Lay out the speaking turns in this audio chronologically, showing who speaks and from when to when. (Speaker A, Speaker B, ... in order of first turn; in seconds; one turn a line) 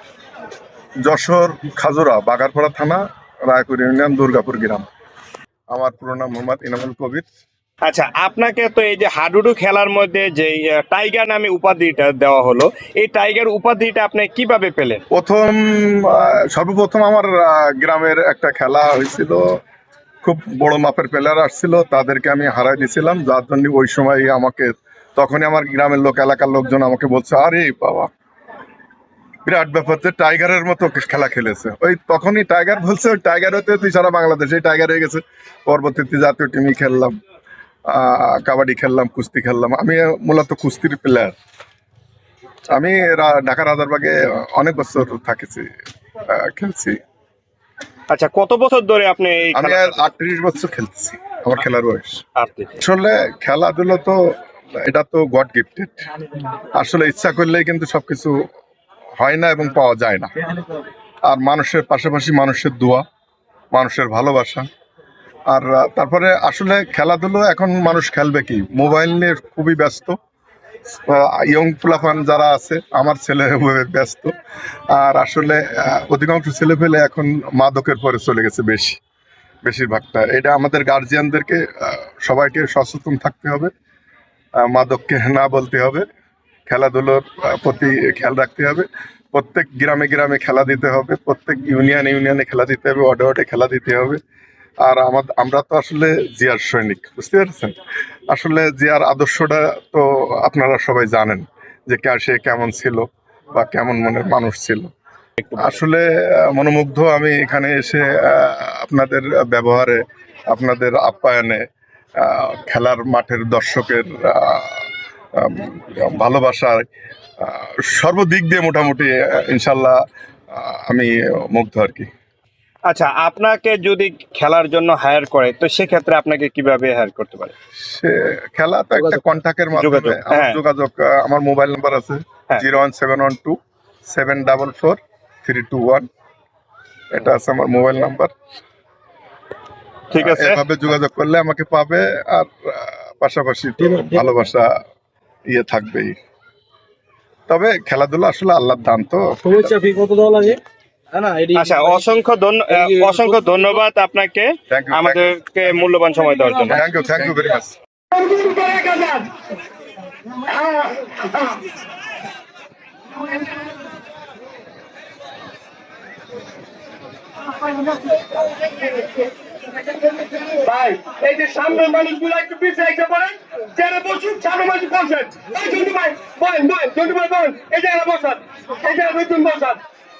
Speaker A: 1.1-4.9
Speaker A: 5.7-7.2
Speaker B: 7.8-15.0
Speaker A: 15.1-19.4
Speaker A: 20.2-28.1
Speaker A: 29.4-37.2
Speaker A: 37.9-41.4
Speaker A: 42.7-45.7
Speaker A: 46.3-47.0
Speaker B: 48.1-50.0
Speaker A: 49.5-52.2
Speaker B: 52.4-52.8
Speaker A: 52.8-54.2
Speaker A: 54.8-56.0
Speaker A: 56.8-58.3
Speaker A: 59.2-60.3
Speaker A: 61.3-63.0
Speaker A: 63.7-64.7
Speaker A: 65.5-70.2
Speaker A: 70.9-74.3
Speaker A: 74.9-79.0
Speaker A: 79.6-83.7
Speaker A: 84.6-86.0
Speaker A: 86.7-94.2
Speaker A: 94.8-97.8
Speaker A: 98.3-104.9
Speaker B: 105.4-105.8
Speaker A: 105.6-110.0
Speaker A: 110.5-111.6
Speaker A: 112.2-114.8
Speaker A: 115.4-116.9
Speaker A: 117.4-120.0
Speaker A: 120.5-122.1
Speaker B: 122.9-127.5
Speaker A: 127.8-136.1
Speaker B: 129.8-130.6
Speaker A: 137.1-138.3
Speaker B: 140.1-140.6
Speaker A: 140.1-144.7
Speaker C: 143.8-144.2
Speaker A: 145.5-146.2
Speaker A: 147.5-149.7
Speaker C: 149.4-150.6
Speaker C: 151.1-153.5
Speaker B: 151.5-156.8
Speaker A: 154.7-155.4
Speaker A: 156.7-157.8
Speaker D: 158.1-159.3
Speaker D: 160.4-161.6
Speaker D: 170.4-179.8
Speaker B: 172.3-172.6
Speaker B: 174.2-174.9